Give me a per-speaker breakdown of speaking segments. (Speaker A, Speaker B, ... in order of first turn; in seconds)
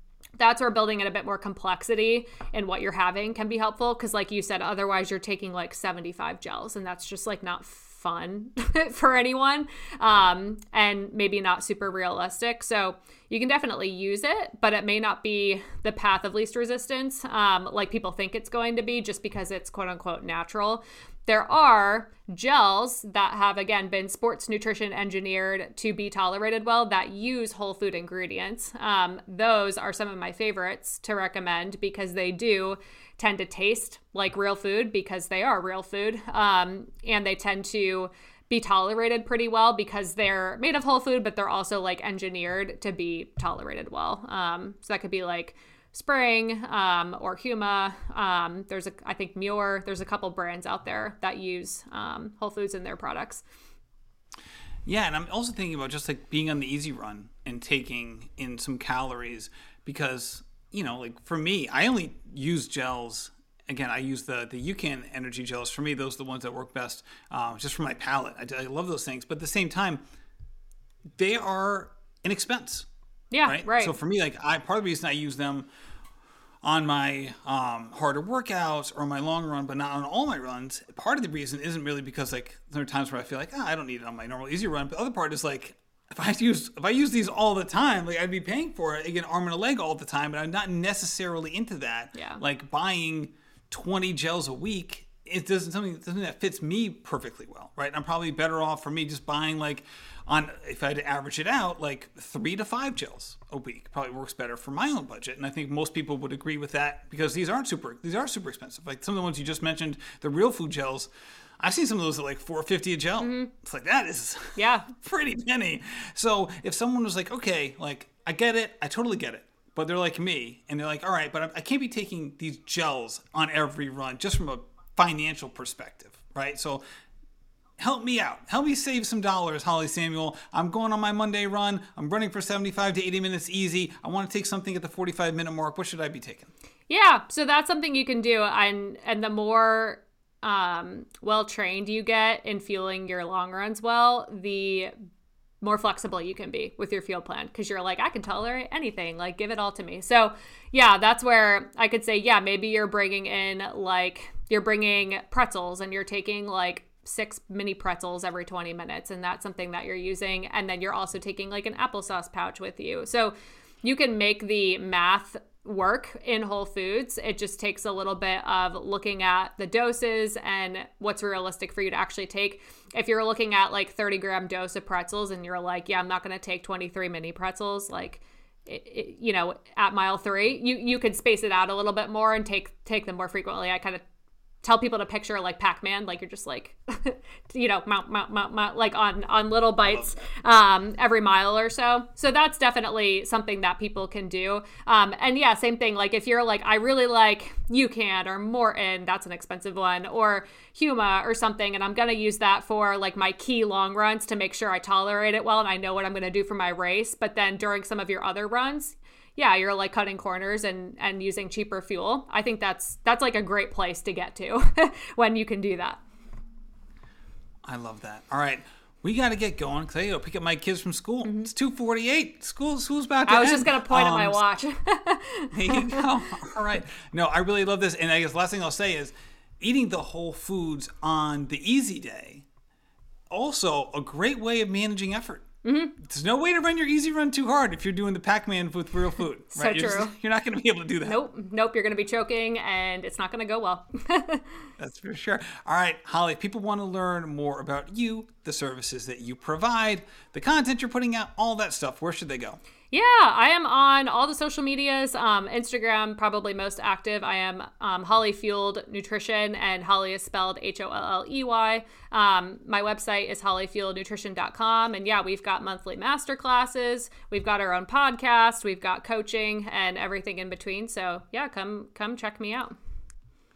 Speaker A: 0.4-53.4, 73.3-74.0, 92.2-92.4, 113.2-113.5, 114.6-114.9, 136.9-144.9, 145.6-184.0, 184.6-216.0, 221.2-221.5, 223.3-226.1, 235.6-235.9, 239.6-240.1, 241.0-244.6, 252.9-272.8
Speaker B: 54.9-70.0, 71.2-72.9, 73.5-75.7, 76.6-126.8, 127.8-136.5, 189.9-190.2, 217.6-224.4, 225.5-232.4, 233.3-241.2, 244.8-252.6